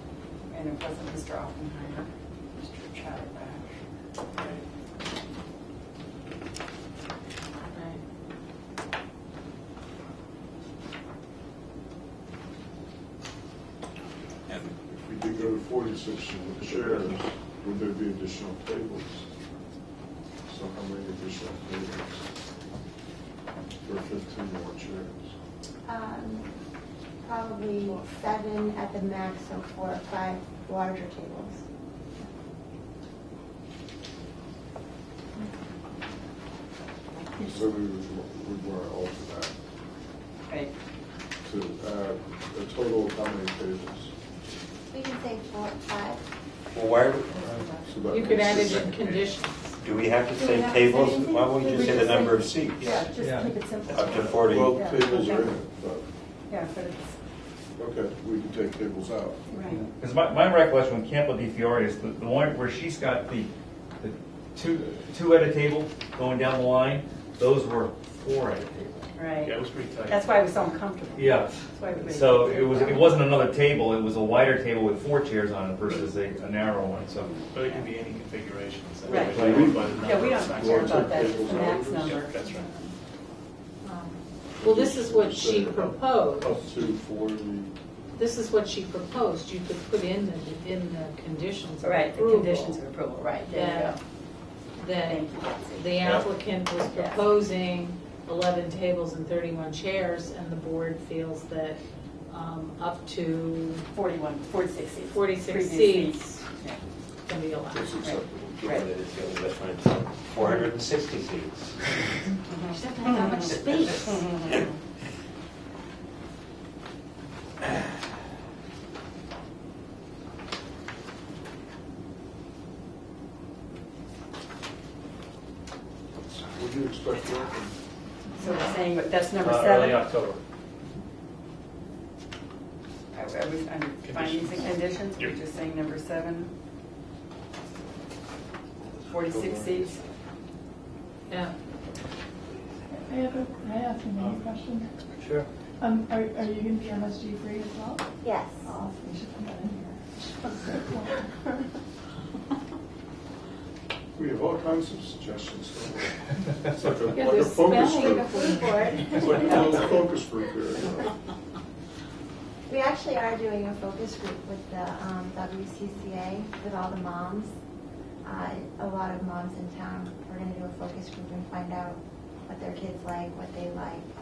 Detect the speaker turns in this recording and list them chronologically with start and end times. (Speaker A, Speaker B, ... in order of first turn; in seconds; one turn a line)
Speaker A: 0.5-3.7
Speaker B: 7.7-8.0
Speaker C: 14.9-19.2
Speaker C: 20.5-22.2
Speaker C: 23.8-25.3
Speaker D: 25.9-26.5
Speaker D: 27.2-31.6
Speaker A: 37.1-37.7
Speaker C: 37.5-39.5
Speaker C: 41.4-44.1
Speaker D: 44.9-46.2
Speaker E: 47.0-47.5
Speaker C: 47.9-49.0
Speaker B: 48.1-49.7
Speaker F: 49.8-51.9
Speaker E: 50.3-53.0
Speaker A: 50.5-55.5
Speaker F: 52.4-52.8
Speaker G: 53.1-53.5
Speaker F: 53.9-54.7
Speaker E: 54.1-54.3
Speaker C: 54.4-56.0
Speaker A: 56.5-57.2
Speaker C: 57.8-59.4
Speaker A: 59.5-59.9
Speaker G: 59.7-63.5
Speaker G: 64.0-69.1
Speaker A: 69.1-69.5
Speaker E: 69.4-70.4
Speaker A: 70.1-73.2
Speaker G: 71.2-77.4
Speaker E: 77.5-81.5
Speaker A: 77.6-78.3
Speaker A: 79.1-82.9
Speaker G: 79.1-80.3
Speaker C: 79.4-82.2
Speaker B: 81.5-81.8
Speaker E: 82.0-82.4
Speaker B: 83.8-86.5
Speaker C: 84.6-87.7
Speaker B: 88.2-92.8
Speaker A: 91.8-94.0
Speaker B: 93.5-94.0
Speaker B: 94.8-103.8
Speaker A: 95.1-95.9
Speaker A: 96.8-97.2
Speaker A: 103.9-106.8
Speaker B: 105.0-106.4
Speaker B: 107.3-108.0
Speaker C: 107.7-108.7
Speaker A: 108.0-108.9
Speaker F: 108.7-111.5
Speaker E: 108.7-111.5
Speaker A: 112.5-113.5
Speaker D: 112.7-113.9
Speaker A: 114.1-114.7
Speaker C: 126.4-127.7
Speaker A: 128.4-130.0
Speaker G: 129.4-130.3
Speaker A: 133.1-136.5
Speaker E: 134.0-135.4
Speaker E: 138.9-140.1
Speaker A: 139.1-140.0
Speaker B: 141.3-141.5
Speaker E: 142.5-142.8
Speaker H: 142.9-144.9
Speaker G: 145.2-145.4
Speaker H: 145.8-148.1
Speaker D: 148.2-148.7
Speaker H: 148.6-151.6
Speaker C: 154.1-158.5
Speaker B: 157.1-159.4
Speaker D: 158.0-160.0
Speaker C: 159.1-161.1
Speaker D: 162.7-167.5
Speaker D: 168.2-174.1